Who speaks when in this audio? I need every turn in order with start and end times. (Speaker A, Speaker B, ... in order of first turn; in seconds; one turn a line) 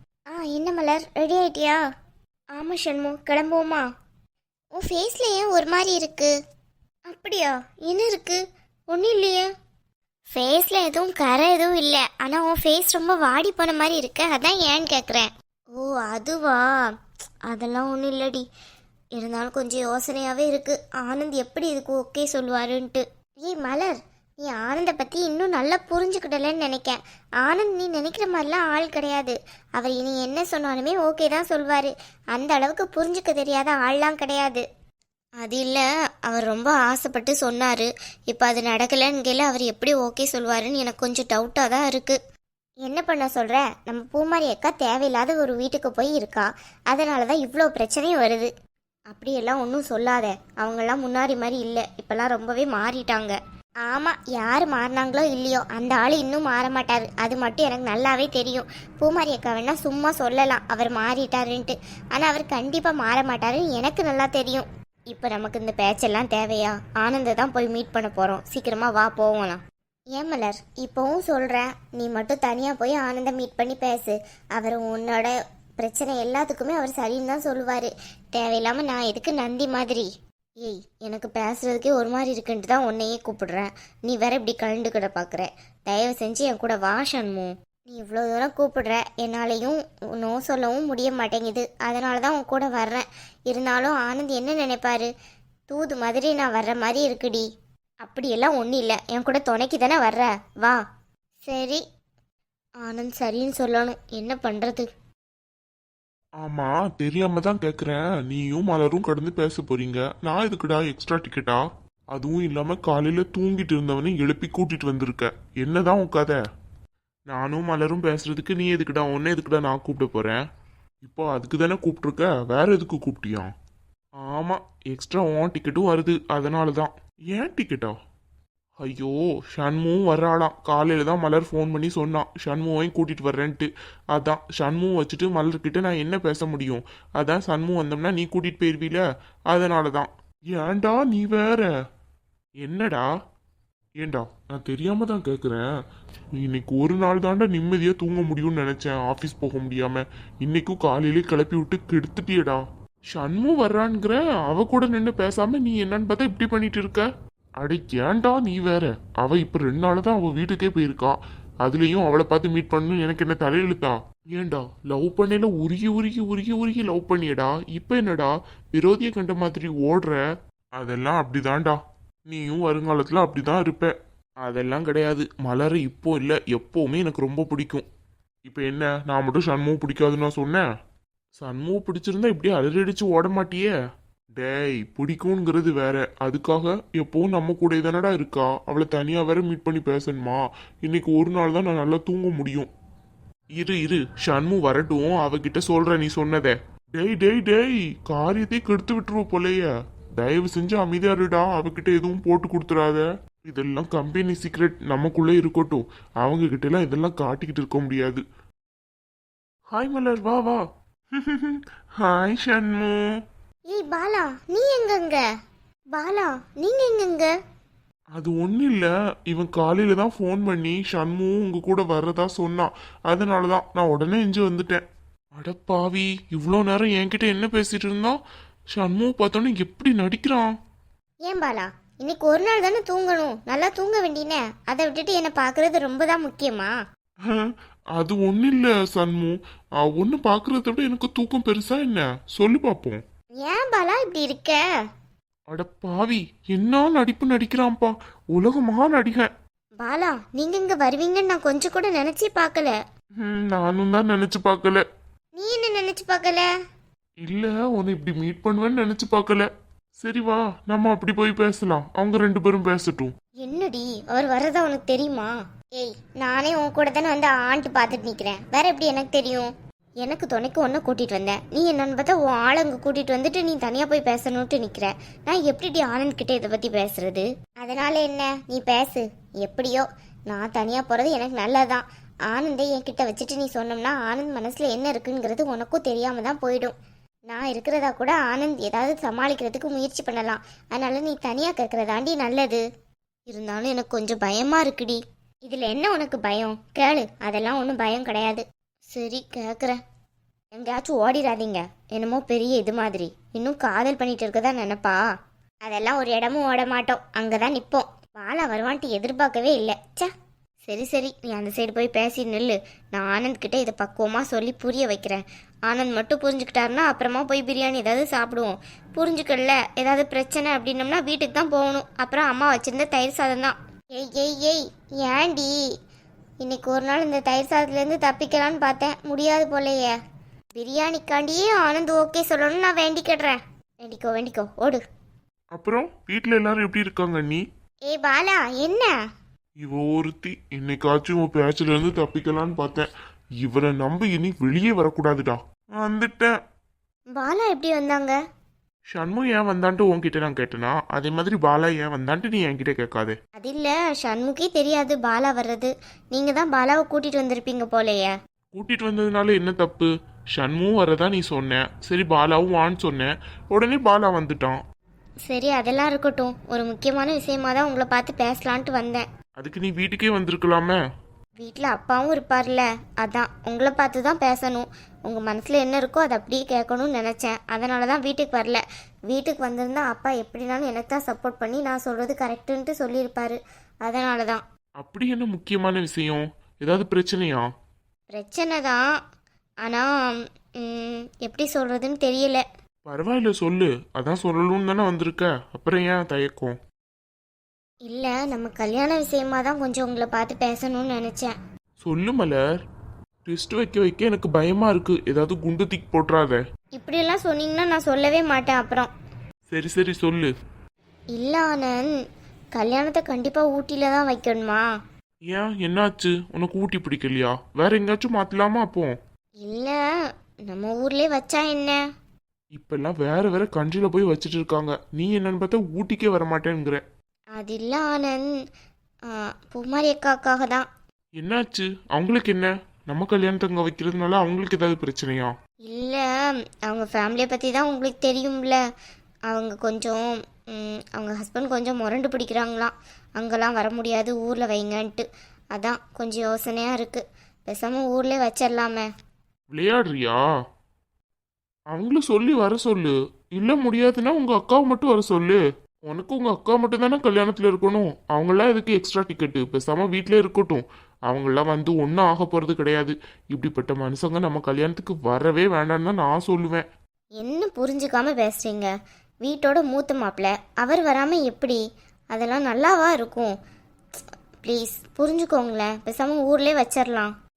Speaker A: 0.3-1.8
Speaker A: 2.5-3.8
Speaker A: 4.8-6.3
Speaker A: 7.1-9.4
Speaker A: 10.3-16.6
Speaker A: 17.5-18.4
Speaker A: 19.1-34.6
Speaker A: 35.4-42.2
Speaker A: 42.8-48.5
Speaker A: 49.1-69.6
Speaker A: 70.1-80.1
Speaker A: 80.6-95.1
Speaker A: 95.7-97.5
Speaker A: 98.0-100.8
Speaker A: 101.4-101.8
Speaker A: 102.8-104.9
Speaker B: 106.4-116.4
Speaker B: 117.3-120.4
Speaker B: 121.0-123.5
Speaker B: 124.2-127.9
Speaker B: 128.8-141.7
Speaker B: 142.6-143.1
Speaker B: 144.0-145.7
Speaker B: 146.4-157.1
Speaker B: 157.6-170.2
Speaker B: 170.8-177.8
Speaker B: 178.4-180.6
Speaker B: 181.4-183.7
Speaker B: 184.4-192.7
Speaker B: 193.6-208.2
Speaker B: 209.7-210.6
Speaker B: 211.1-213.0
Speaker A: 213.7-215.2
Speaker A: 215.9-217.3
Speaker B: 218.2-224.8
Speaker B: 225.4-228.2
Speaker B: 228.7-230.5
Speaker A: 231.2-236.7
Speaker B: 237.3-243.0
Speaker A: 243.4-244.6
Speaker B: 245.5-249.3
Speaker A: 249.8-252.8
Speaker B: 253.2-254.8
Speaker A: 255.4-256.5
Speaker B: 257.2-259.5
Speaker B: 260.0-263.1
Speaker A: 263.4-286.7
Speaker A: 287.3-292.6
Speaker A: 293.3-299.8
Speaker A: 300.6-305.0
Speaker A: 305.6-310.1
Speaker A: 310.6-325.5
Speaker A: 326.4-329.9
Speaker A: 330.6-334.8
Speaker B: 335.5-337.4
Speaker A: 337.9-338.9
Speaker B: 339.6-342.9
Speaker B: 343.4-346.3
Speaker A: 347.2-348.2
Speaker B: 348.9-353.1
Speaker A: 353.4-358.1
Speaker B: 358.5-364.6
Speaker A: 365.3-369.0
Speaker B: 369.4-370.8
Speaker A: 371.4-384.4
Speaker B: 384.8-387.4
Speaker A: 388.1-388.8
Speaker A: 389.6-392.4
Speaker B: 392.9-396.5
Speaker A: 397.9-401.3
Speaker B: 401.8-402.4
Speaker B: 403.2-406.4
Speaker A: 406.8-408.9
Speaker B: 409.5-410.3
Speaker A: 411.1-411.9
Speaker A: 412.6-414.6
Speaker B: 415.3-418.9
Speaker A: 419.4-419.8
Speaker A: 420.5-421.8
Speaker B: 422.6-426.8
Speaker A: 427.4-428.3
Speaker A: 429.1-430.7
Speaker B: 431.2-435.3
Speaker A: 435.7-436.1
Speaker A: 436.6-438.6
Speaker A: 439.3-448.9
Speaker B: 449.5-450.2
Speaker B: 451.7-466.6
Speaker A: 467.2-468.7
Speaker A: 469.2-471.6
Speaker A: 472.1-473.4
Speaker A: 474.4-477.1